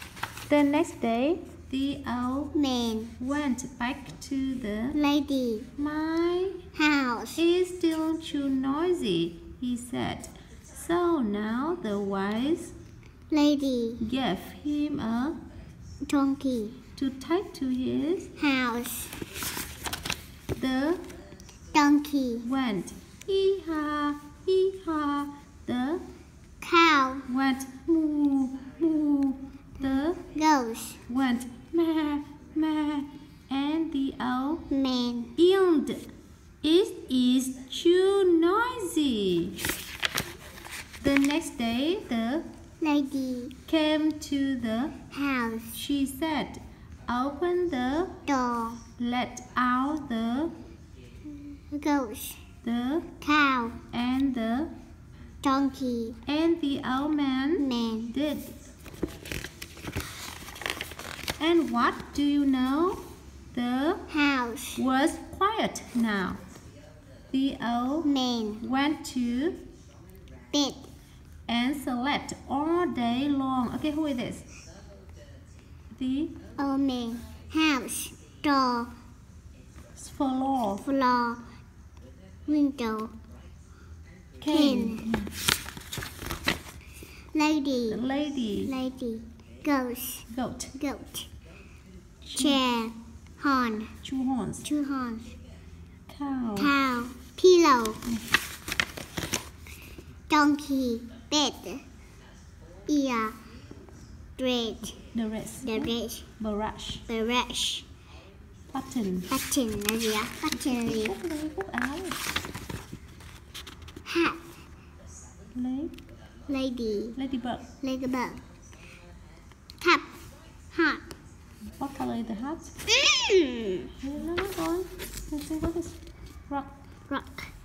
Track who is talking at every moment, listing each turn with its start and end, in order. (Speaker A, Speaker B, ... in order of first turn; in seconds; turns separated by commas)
Speaker A: 0.5-2.5, Speaker B: 2.5-3.1, Speaker A: 3.2-5.0, Speaker B: 4.9-5.7, Speaker A: 5.8-6.6, Speaker B: 6.8-7.4, Speaker A: 7.4-12.8, Speaker B: 13.3-14.0, Speaker A: 14.0-15.4, Speaker B: 16.1-16.8, Speaker A: 17.0-18.3, Speaker B: 18.4-19.1, Speaker A: 20.5-21.0, Speaker B: 21.7-22.5, Speaker A: 22.4-26.0, Speaker B: 26.6-27.3, Speaker A: 27.3-30.2, Speaker B: 30.3-31.0, Speaker A: 31.1-34.7, Speaker B: 34.7-35.3, Speaker A: 35.4-36.0, Speaker A: 36.6-39.6, Speaker A: 41.0-42.5, Speaker B: 42.8-43.5, Speaker A: 43.7-45.0, Speaker B: 45.1-45.8, Speaker A: 45.7-48.2, Speaker B: 48.2-48.8, Speaker A: 49.0-50.5, Speaker B: 51.7-52.4, Speaker A: 52.6-53.1, Speaker B: 53.2-53.8, Speaker A: 53.9-54.7, Speaker B: 55.4-56.2, Speaker A: 56.3-58.6, Speaker B: 57.6-58.1, Speaker A: 61.4-64.0, Speaker B: 64.1-64.8, Speaker A: 64.8-66.4, Speaker A: 67.3-68.1, Speaker B: 68.0-68.6, Speaker A: 68.6-69.6, Speaker B: 70.5-70.9, Speaker A: 71.5-74.5, Speaker A: 75.9-76.4, Speaker B: 76.6-78.9, Speaker A: 80.0-80.8, Speaker B: 80.8-81.4, Speaker B: 82.5-83.1, Speaker A: 84.4-85.3, Speaker B: 84.5-85.1, Speaker B: 87.3-88.0, Speaker A: 87.9-88.7, Speaker B: 88.7-90.3, Speaker A: 90.3-90.8, Speaker B: 90.8-91.3, Speaker A: 92.2-92.6, Speaker B: 92.4-93.9, Speaker A: 94.0-94.7, Speaker B: 94.6-95.3, Speaker A: 96.1-96.7, Speaker B: 96.6-98.0, Speaker B: 100.3-101.8, Speaker B: 102.9-103.4, Speaker B: 104.4-105.0, Speaker A: 105.1-107.0, Speaker B: 105.6-106.3, Speaker B: 107.1-107.9, Speaker A: 108.7-109.3, Speaker B: 109.3-111.2, Speaker A: 110.5-112.2, Speaker B: 114.0-114.4, Speaker A: 115.5-116.0, Speaker B: 116.5-117.2, Speaker A: 117.2-117.7, Speaker B: 117.8-118.4, Speaker B: 119.8-120.2, Speaker B: 120.7-121.0, Speaker A: 121.8-122.7, Speaker B: 122.9-123.9, Speaker A: 124.0-126.0, Speaker B: 127.1-127.5